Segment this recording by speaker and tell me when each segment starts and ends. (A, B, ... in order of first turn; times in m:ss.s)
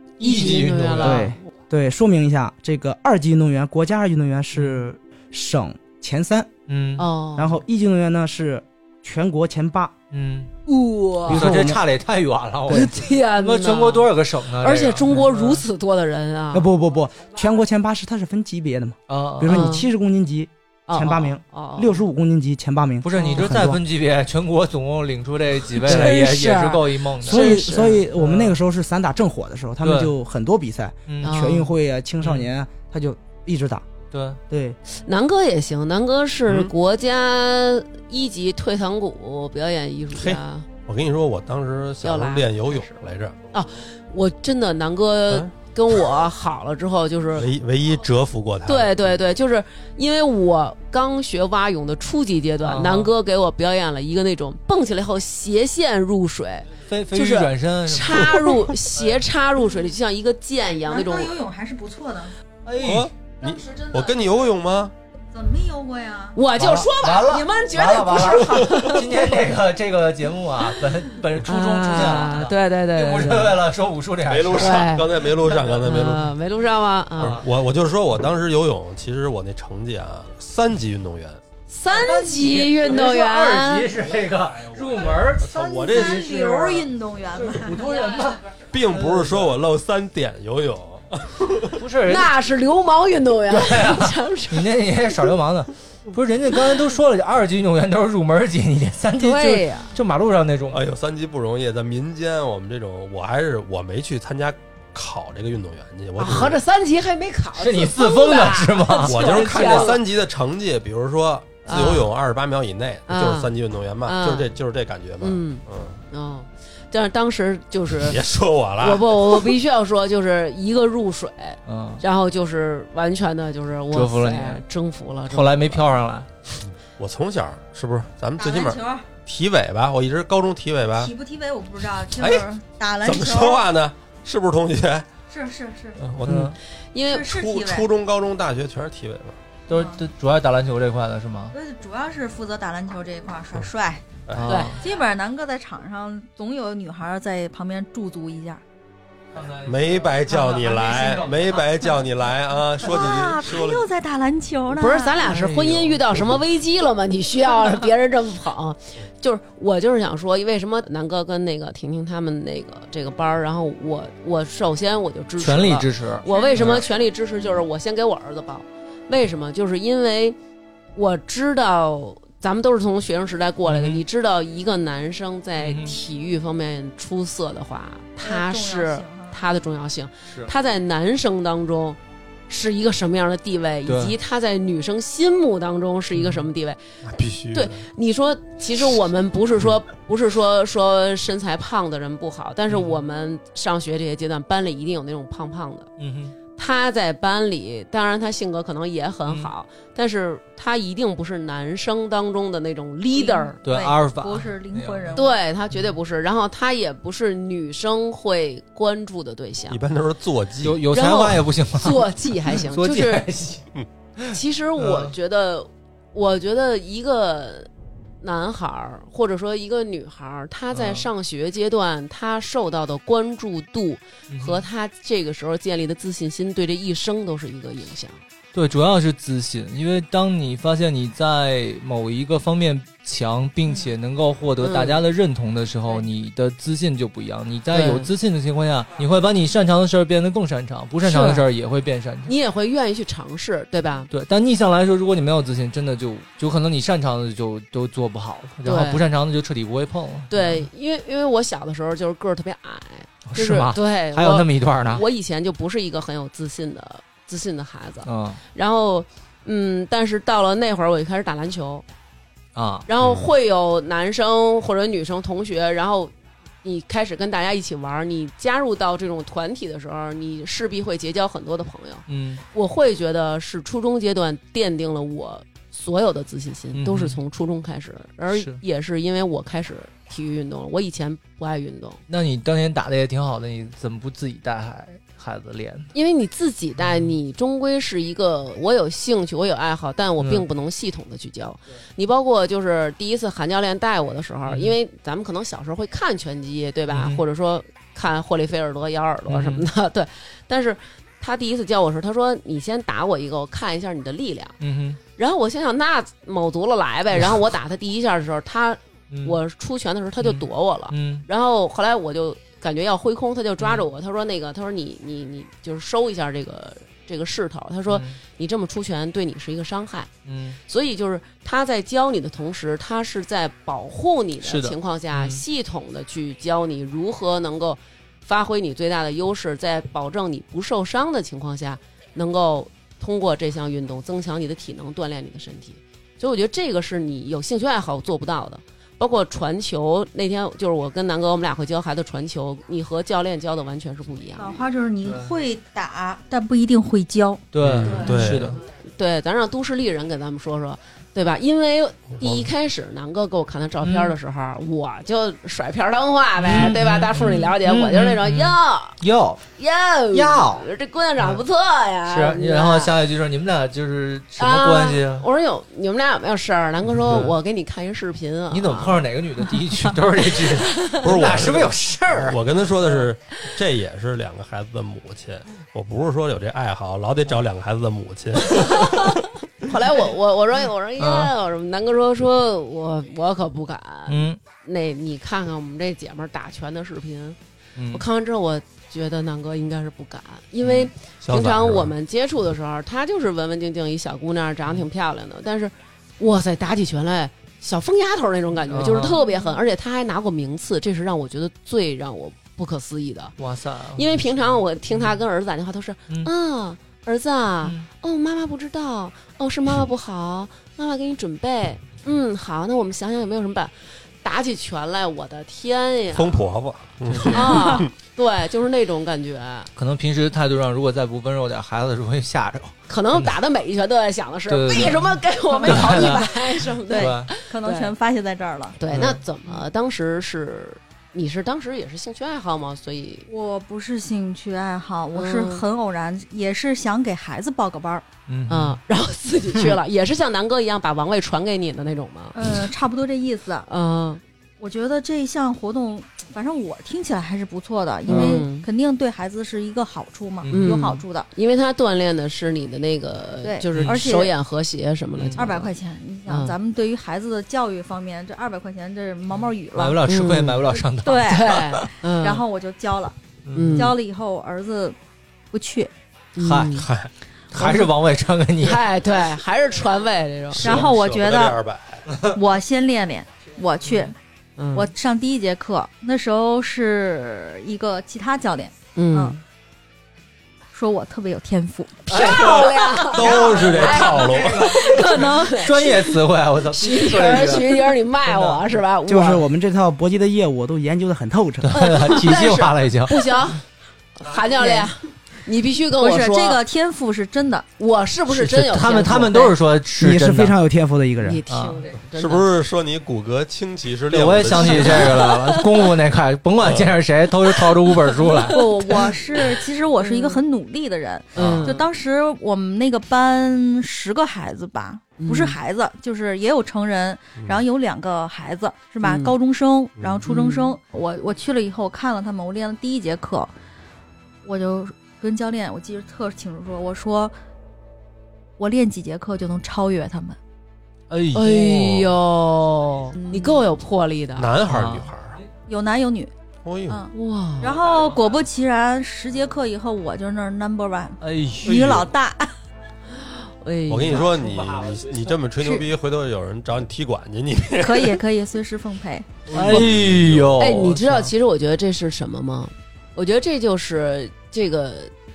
0:00.2-0:01.3 A
0:00.2-0:01.4 B
0:01.0-0:06.5 C
0:04.6-0:04.8 A
0:06.7-0:07.1 A
0:07.0-0:07.6 B
0:07.4-0:09.9 C
0:10.1-0:10.5 A
0:10.7-0:11.5 B
0:11.3-0:11.8 C
0:11.3-0:15.6 A
0:12.7-0:13.0 C
0:12.7-0:16.7 B
0:16.5-0:23.8 C
0:19.1-0:19.7 A
0:19.4-0:19.9 B
0:20.9-0:22.0 B
0:23.0-0:28.6 A
0:23.2-0:23.5 B
0:25.7-0:28.0 B
0:27.2-0:33.9 C
0:29.8-0:30.1 A
0:31.1-0:31.6 A
0:31.2-0:31.7 B
0:32.2-0:32.5 A
0:34.1-0:34.4 A
0:34.5-0:34.8 C
0:34.9-0:40.7 B
0:40.1-0:43.4 D
0:42.0-0:43.0 B
0:43.5-0:47.5 B
0:47.4-0:49.2 D
0:48.7-1:01.4 B
0:52.6-0:53.1 A
0:56.9-0:59.3 A
1:00.9-1:02.3 E
1:02.6-1:03.1 A
1:02.8-1:04.9 D
1:05.3-1:06.4 E
1:06.4-1:09.5 B
1:06.6-1:14.9 A
1:11.4-1:13.6 B
1:14.2-1:16.3 D
1:14.5-1:17.4 B
1:17.2-1:17.5 A
1:17.2-1:21.4 D
1:21.7-1:23.9 B
1:22.0-1:29.5 A
1:22.0-1:22.4 E
1:25.4-1:26.8 D
1:25.5-1:28.0 E
1:28.7-1:31.8 D
1:31.8-1:32.3 A
1:32.0-1:34.7 B
1:33.5-1:40.8 A
1:39.2-1:39.9 B
1:40.7-1:46.6 D
1:46.2-1:50.0 B
1:47.6-1:50.0 A
1:49.0-1:56.0 D
1:51.7-1:52.1 B
1:53.1-1:53.5 B
1:54.1-1:54.5 B
1:55.2-1:58.2 B
1:58.0-1:59.5 D
1:58.8-2:05.8 B
2:01.7-2:02.0 A
2:03.9-2:04.6 A
2:05.3-2:06.3 A
2:06.7-2:11.1 D
2:08.4-2:09.0 E
2:11.0-2:13.6 E
2:12.1-2:12.4 D
2:13.0-2:15.1 D
2:15.3-2:16.0 E
2:16.0-2:16.6 D
2:16.2-2:16.6 A
2:16.9-2:17.3 B
2:17.1-2:17.9 E
2:17.2-2:19.4 D
2:19.7-2:21.5 A
2:19.7-2:20.0 E
2:21.5-2:24.0 E
2:24.3-2:24.6 D
2:24.3-2:24.8 A
2:24.5-2:24.8 B
2:24.8-2:28.6 E
2:29.3-2:32.0 A
2:29.6-2:33.9 D
2:32.8-2:35.4 E
2:34.7-2:50.4 B
2:35.2-2:36.4 A
2:45.4-2:46.8 A
2:46.2-2:46.8 E
2:51.0-3:06.8 B
2:53.7-2:54.0 A
2:55.6-2:56.0 A
2:58.2-2:59.4 E
3:03.9-3:04.2 A
3:06.1-3:06.5 A
3:07.0-3:07.8 D
3:07.5-3:15.9 B
3:12.7-3:13.0 A
3:16.0-3:16.4 A
3:16.6-3:23.6 B
3:23.1-3:25.3 E
3:23.6-3:25.2 A
3:25.2-3:29.8 B
3:29.7-3:30.8 D
3:30.6-3:33.7 A
3:30.9-3:33.3 B
3:34.2-3:35.1 A
3:34.3-3:37.7 B
3:38.2-3:48.2 B
3:40.7-3:41.1 A
3:44.3-3:44.6 A
3:48.5-4:02.3 A
3:54.6-3:55.0 B
3:57.7-3:58.1 B
4:01.0-4:01.5 B
4:02.2-4:04.1 B
4:04.1-4:10.7 A
4:08.6-4:09.0 B
4:10.3-4:21.8 B
4:13.3-4:15.0 A
4:18.1-4:18.4 A
4:22.6-4:22.9 A
4:22.9-4:26.1 B
4:23.0-4:23.3 D
4:26.6-4:42.0 B
4:32.1-4:32.4 A
4:36.7-4:37.2 A
4:38.3-4:38.6 A
4:42.1-4:45.9 A
4:45.9-5:04.6 B
4:50.2-4:50.4 A
4:54.5-4:54.8 A
4:56.9-4:57.2 A
4:59.3-4:59.7 A
5:04.6-5:05.0 A
5:05.2-5:20.1 B
5:09.1-5:09.4 A
5:10.2-5:11.3 A
5:17.9-5:18.2 A
5:20.3-5:20.6 A
5:20.6-5:44.6 B
5:24.4-5:25.4 A
5:44.4-5:48.2 E
5:47.5-5:48.6 A
5:47.6-5:48.6 D
5:48.8-5:59.0 B
5:52.2-5:52.5 D
5:53.8-5:54.2 A
5:56.4-5:59.4 A
5:59.6-6:02.9 B
6:00.1-6:00.6 A
6:02.1-6:05.3 A
6:04.4-6:09.1 B
6:06.9-6:07.4 A
6:08.5-6:12.4 A
6:10.2-6:11.5 B
6:11.0-6:19.2 D
6:12.1-6:12.4 B
6:18.7-6:19.1 B
6:19.6-6:27.4 B
6:21.0-6:21.3 A
6:24.1-6:24.4 A
6:27.8-6:28.0 A
6:27.9-6:43.4 B
6:30.6-6:30.9 A
6:31.2-6:31.9 D
6:38.7-6:39.2 A
6:43.4-6:44.3 A
6:43.9-6:56.4 B
6:47.6-6:47.9 A
6:56.2-6:57.9 D
6:57.1-6:57.4 A
6:57.3-6:59.7 B
6:57.5-6:57.8 E
6:59.8-7:03.3 A
7:02.9-7:07.9 B
7:04.5-7:07.3 A
7:06.9-7:08.8 E
7:08.8-7:13.3 B
7:08.9-7:09.2 A
7:13.3-7:18.0 E
7:15.1-7:15.6 B
7:18.3-7:18.8 A
7:18.5-7:22.6 B
7:22.3-7:23.7 E
7:23.7-7:24.2 B
7:24.6-7:31.3 E
7:28.1-7:28.7 B
7:28.1-7:28.4 A
7:30.4-7:30.8 A
7:30.5-7:35.7 B
7:33.4-7:34.3 E
7:35.4-7:40.0 E
7:36.3-7:36.6 B
7:39.3-7:41.6 A
7:40.1-7:40.6 B
7:41.0-7:41.6 E
7:41.3-7:42.4 B
7:42.2-7:43.1 E
7:43.5-7:43.9 A
7:43.6-7:43.9 B
7:43.8-7:45.0 E
7:45.5-7:45.9 E
7:46.4-7:46.9 B
7:46.4-7:46.9 A
7:46.8-7:47.1 D
7:47.5-7:48.8 A
7:47.6-7:47.9 B
7:48.6-7:50.9 B
7:50.6-7:52.1 D
7:50.6-7:51.6 E
7:52.3-7:54.2 E
7:54.6-7:54.9 B
7:54.8-7:59.4 E
7:59.0-7:59.4 B
8:00.7-8:02.0 E
8:02.1-8:06.2 B
8:02.1-8:08.6 A
8:02.1-8:04.7 D
8:03.4-8:03.7 E
8:04.6-8:05.7 E
8:06.7-8:09.4 B
8:09.1-8:11.9 C
8:11.6-8:13.5 A
8:11.7-8:13.6 B
8:14.2-8:16.6 B
8:14.6-8:14.9 E
8:16.0-8:17.7 E
8:17.8-8:19.6 B
8:18.3-8:20.6 A
8:20.0-8:21.4 C
8:21.2-8:22.5 B
8:21.5-8:21.8 A
8:22.1-8:25.3 D
8:24.1-8:28.6 A
8:24.6-8:26.0 B
8:26.6-8:27.0 D
8:27.6-8:29.0 B
8:28.4-8:43.5 E
8:30.0-8:30.4 B
8:31.4-8:31.9 B
8:31.4-8:31.7 A
8:35.2-8:35.6 B
8:37.4-8:37.6 D
8:39.0-8:39.4 B
8:40.2-8:40.7 B
8:44.4-8:47.3 E
8:48.6-8:50.4 E
8:51.1-8:52.1 A
8:51.3-8:54.5 B
8:53.2-8:53.5 E
8:54.4-8:55.4 D
8:54.7-8:55.1 A
8:55.7-8:56.3 E
8:56.6-8:57.0 D
8:56.9-9:02.5 E
8:57.1-8:57.8 B
9:01.2-9:02.0 A
9:03.1-9:04.3 B
9:03.9-9:08.2 D
9:07.8-9:09.9 E
9:09.5-9:11.3 A
9:09.5-9:10.7 D
9:10.6-9:15.1 B